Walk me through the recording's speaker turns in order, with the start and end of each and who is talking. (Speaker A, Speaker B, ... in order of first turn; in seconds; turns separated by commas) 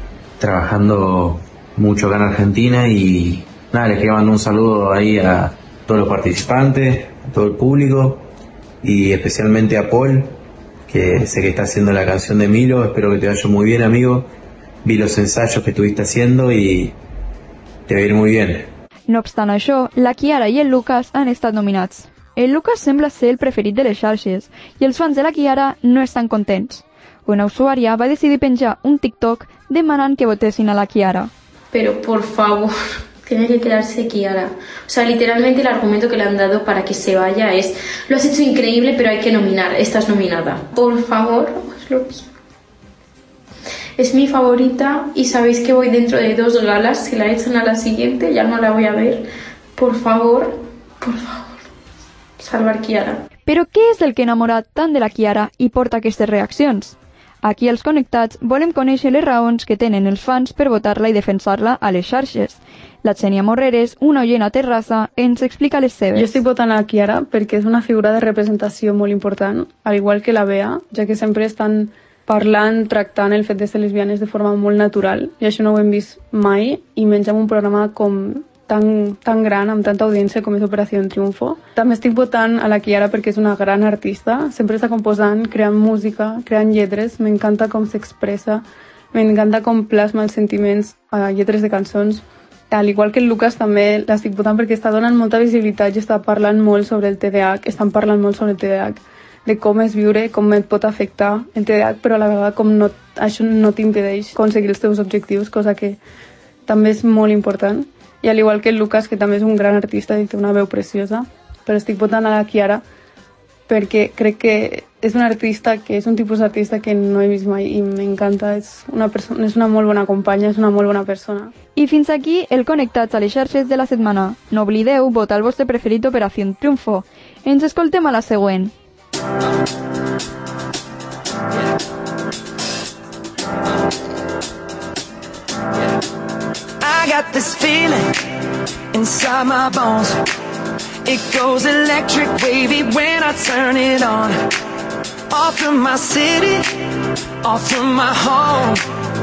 Speaker A: 0.4-8.3, Speaker A: 8.8-14.3, Speaker A: 14.8-16.9, Speaker A: 17.9-18.7, Speaker B: 19.1-31.3, Speaker C: 31.7-42.3, Speaker C: 44.0-51.6, Speaker C: 52.4-53.2, Speaker B: 53.5-66.4, Speaker D: 66.1-106.0, Speaker D: 106.7-112.8, Speaker D: 113.7-121.5, Speaker B: 121.8-128.7, Speaker E: 136.8-138.2, Speaker E: 138.9-140.2, Speaker E: 141.0-144.4, Speaker E: 145.3-148.8